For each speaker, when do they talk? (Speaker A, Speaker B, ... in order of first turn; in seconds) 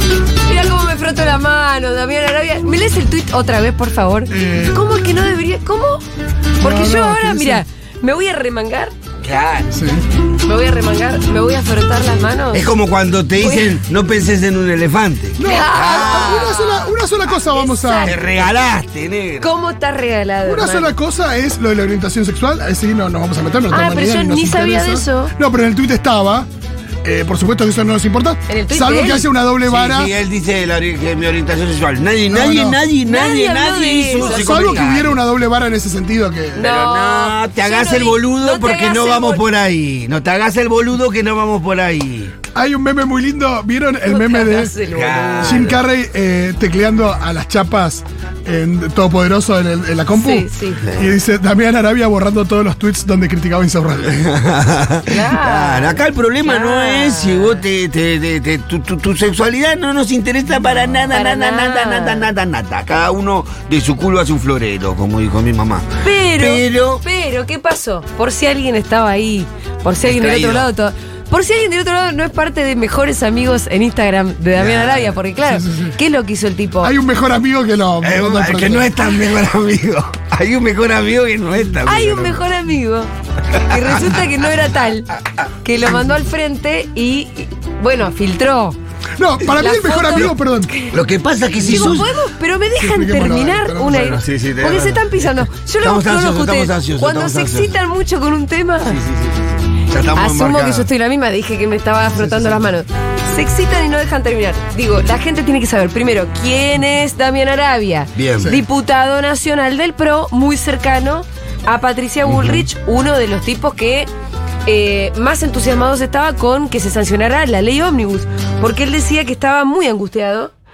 Speaker A: 0.5-6.0, 6.6-8.9, 10.4-12.7, 13.4-13.7, 15.4-18.5, 19.4-20.9, 23.7-25.3, 28.5-29.3, 33.0-34.8, 36.5-39.4, 44.1-45.7, 50.1-50.8, 55.1-57.6, 61.1-62.3, 66.0-76.9, 81.8-83.1, 83.6-85.1, 85.6-88.8, 89.5-90.9, 91.6-99.0, 100.1-114.1, 114.7-120.5
Speaker B: 4.3-4.8, 6.6-7.6, 9.7-10.0, 15.4-18.2, 20.4-26.5, 27.0-30.1, 32.3-32.8, 34.2-36.7, 42.5-44.8, 45.4-54.2, 75.3-76.0, 76.8-79.1, 89.2-90.8, 91.6-92.0, 92.8-94.2, 102.2-102.6
Speaker C: 9.2-9.7, 12.5-16.6, 18.0-19.5, 29.6-35.2, 36.6-42.4, 44.9-45.8, 50.8-51.2, 54.1-67.0, 70.0-70.7, 74.5-75.2, 78.0-82.4, 90.9-92.1, 94.0-95.1, 95.8-97.7, 98.9-100.9, 108.1-108.5, 112.2-112.6